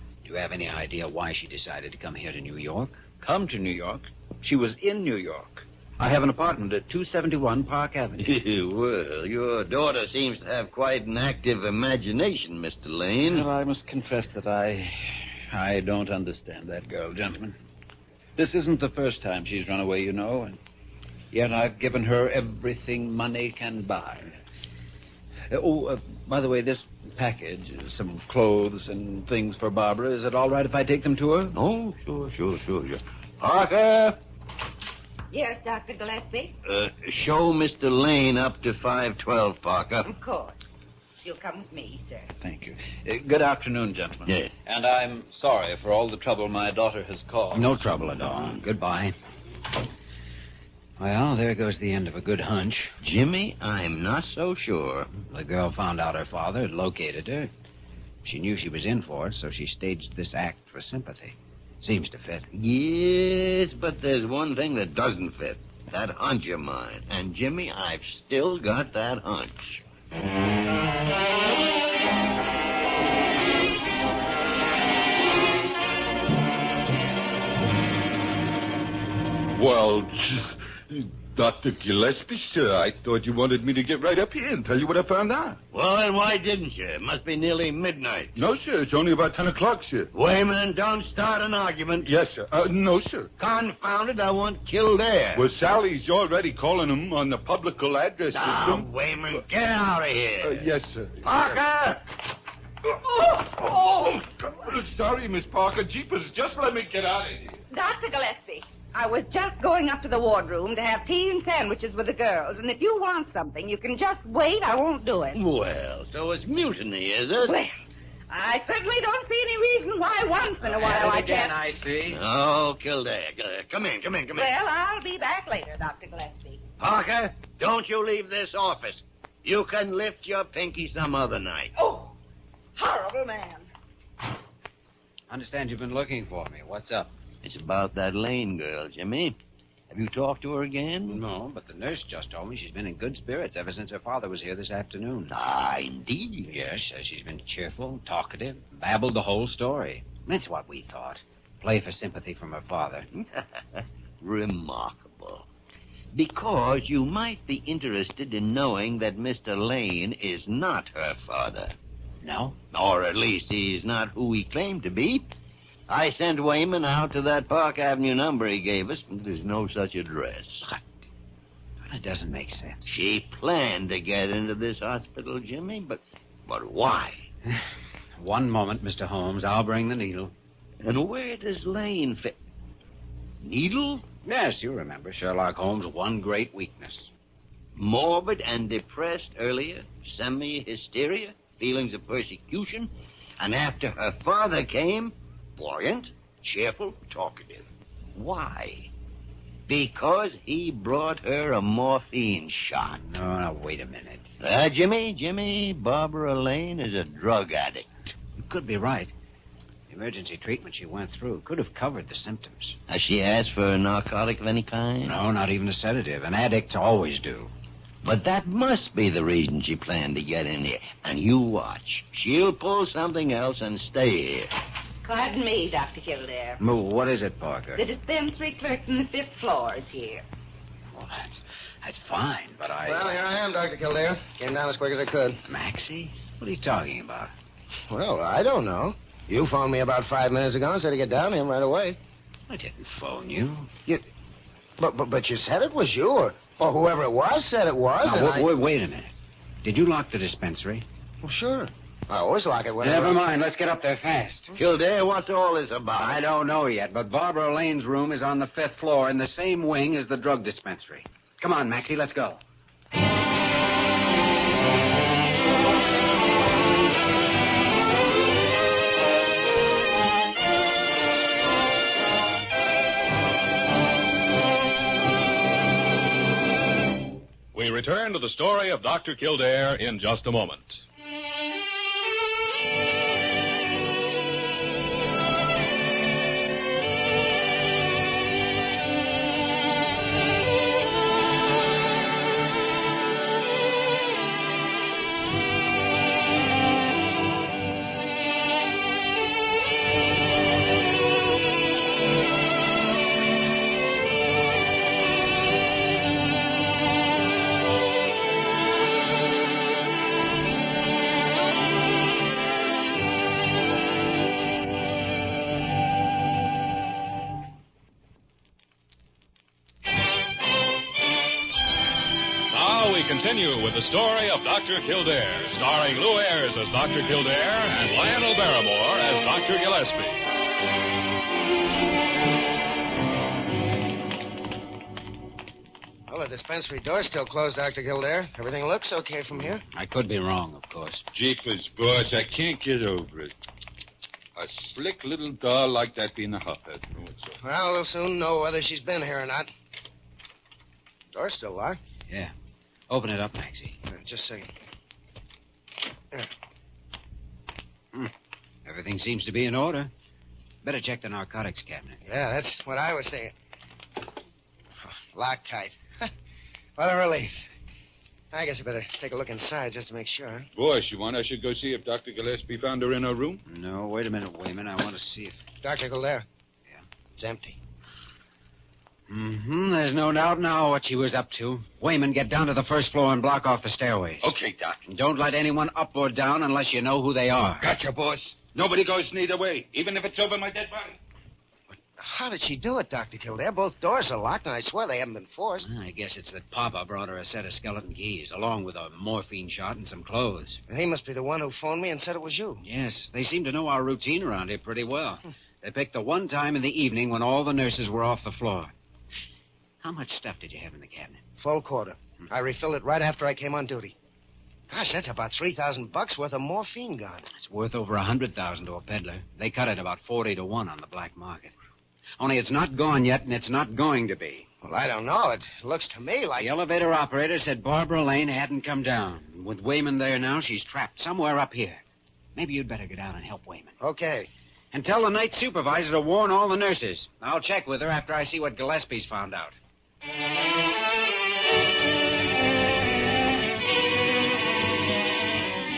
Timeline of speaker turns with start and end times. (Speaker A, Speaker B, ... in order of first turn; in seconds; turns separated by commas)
Speaker A: 0.2-3.0, Speaker B: 3.2-5.6, Speaker A: 6.0-8.3, Speaker C: 8.2-13.5, Speaker B: 13.2-17.6, Speaker B: 18.4-20.6, Speaker B: 21.3-24.3, Speaker B: 25.5-31.5, Speaker C: 31.5-34.2, Speaker D: 35.3-36.5, Speaker C: 36.6-40.1, Speaker D: 40.0-40.6, Speaker D: 41.2-42.3, Speaker B: 42.4-47.7, Speaker C: 44.2-44.5, Speaker A: 47.5-49.1, Speaker A: 51.0-53.0, Speaker C: 53.0-55.1, Speaker A: 55.3-57.5, Speaker A: 58.2-62.5, Speaker C: 62.5-69.8, Speaker E: 79.5-85.6, Speaker C: 85.7-88.3, Speaker E: 88.3-90.1, Speaker C: 90.1-92.1, Speaker E: 92.0-93.3, Speaker C: 93.4-95.5, Speaker E: 95.3-98.9, Speaker C: 98.3-100.7, Speaker E: 100.4-101.6, Speaker C: 101.2-102.0, Speaker E: 103.2-107.6, Speaker D: 107.7-115.4, Speaker C: 115.3-117.5, Speaker D: 117.4-117.7, Speaker D: 118.3-121.5, Speaker A: 120.6-122.2, Speaker C: 122.1-124.5, Speaker D: 124.3-126.6, Speaker C: 126.8-131.7, Speaker D: 131.7-132.1, Speaker D: 132.8-133.7, Speaker A: 135.3-137.1, Speaker C: 137.4-139.3, Speaker C: 139.9-141.2, Speaker A: 141.1-145.3, Speaker C: 145.3-146.5, Speaker A: 146.4-153.1, Speaker C: 153.2-155.4, Speaker C: 156.1-161.7, Speaker A: 162.2-162.6, Speaker C: 162.7-165.2, Speaker C: 165.9-170.6, Speaker A: 171.8-172.8, Speaker C: 172.9-177.2, Speaker A: 178.2-180.3, Speaker C: 180.8-182.3, Speaker C: 183.4-184.0, Speaker A: 184.2-187.1, Speaker C: 187.7-198.9, Speaker C: 199.7-203.0, Speaker A: 202.9-204.3, Speaker C: 204.4-207.8, Speaker A: 208.4-209.1, Speaker A: 209.9-212.8, Speaker C: 212.9-215.1, Speaker A: 215.0-217.5, Speaker C: 218.0-224.5, Speaker D: 225.0-226.6, Speaker A: 226.6-227.8, Speaker D: 227.8-230.2, Speaker A: 230.9-233.2, Speaker F: 232.8-235.4, Speaker A: 235.4-237.3, Speaker F: 237.9-242.0, Speaker A: 242.5-243.7, Speaker F: 244.8-248.4, Speaker A: 248.0-250.8, Speaker F: 251.2-253.2, Speaker A: 252.8-254.5, Speaker C: 254.5-256.2, Speaker A: 256.0-262.4, Speaker G: 277.5-280.8, Speaker G: 322.5-330.2, Speaker F: 336.1-339.6, Speaker A: 339.7-341.0, Speaker E: 341.1-343.3, Speaker E: 344.4-347.4, Speaker F: 347.4-349.5, Speaker F: 351.1-351.8, Speaker A: 352.9-353.8, Speaker F: 353.9-354.5, Speaker A: 358.6-359.9, Speaker A: 360.6-362.0, Speaker F: 362.1-363.3, Speaker F: 364.9-366.1, Speaker F: 366.8-367.3, Speaker F: 368.3-370.5, Speaker E: 370.5-373.4, Speaker A: 373.5-375.4, Speaker F: 375.6-376.2, Speaker F: 377.2-377.6, Speaker A: 379.1-384.3, Speaker E: 384.2-384.8, Speaker A: 384.8-387.7, Speaker E: 387.6-391.0, Speaker F: 392.0-395.6, Speaker A: 395.6-400.6, Speaker F: 400.7-402.6, Speaker A: 402.6-408.7, Speaker A: 409.8-411.2, Speaker F: 411.4-413.9, Speaker F: 414.7-417.3, Speaker A: 417.3-421.5, Speaker A: 422.2-424.5, Speaker F: 424.6-426.5, Speaker A: 426.4-431.8, Speaker A: 432.3-433.8, Speaker F: 433.8-434.3, Speaker A: 434.7-439.6